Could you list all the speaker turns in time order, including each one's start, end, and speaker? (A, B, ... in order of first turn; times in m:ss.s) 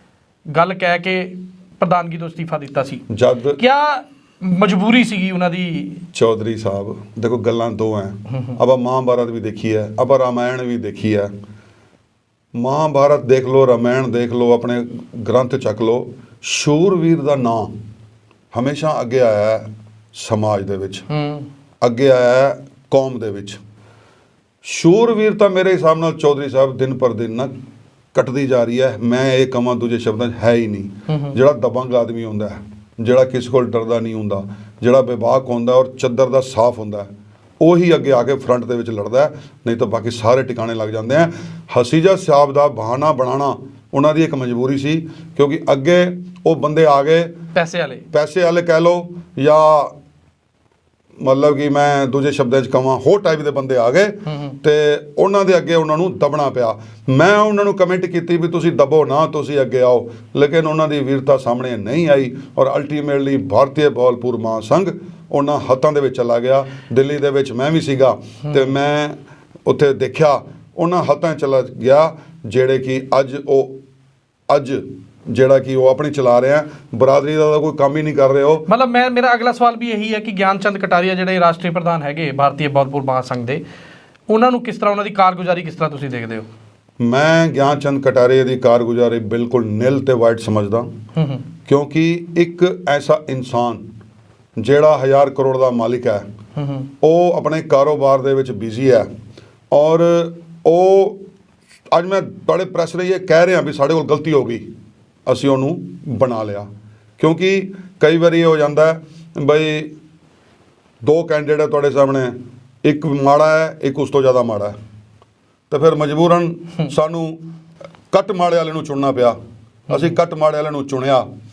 0:00.5-0:03.0 A
0:03.1-0:03.6 B
0:03.6-0:06.0 A
0:06.1-0:11.3 B
0:12.5-0:17.8 B
0:18.5-0:21.1 B
0:21.1-0:21.5 A
0:21.8-0:23.6 B
0:24.6-0:27.5 B
0:28.1-0:47.4 B
0:31.1-0:31.4 A
0:47.5-0:48.0 A
0:48.1-0:49.9 B
0:51.2-1:13.8 B
0:54.3-0:54.6 A
1:14.5-1:18.7 B
1:18.7-1:23.6 A
1:24.3-1:26.4 A
1:27.0-1:30.9 B
1:31.1-1:31.4 A
1:31.6-1:33.9 B
1:34.6-1:36.2 B
1:36.6-1:36.9 A
1:37.0-1:39.1 B
1:39.7-1:41.2 B
1:41.9-1:44.7 B
1:45.2-1:46.7 B
1:47.2-1:49.9 B
1:51.0-1:54.8 B
1:55.7-1:57.4 B
1:58.1-1:59.4 B
1:59.9-2:01.3 B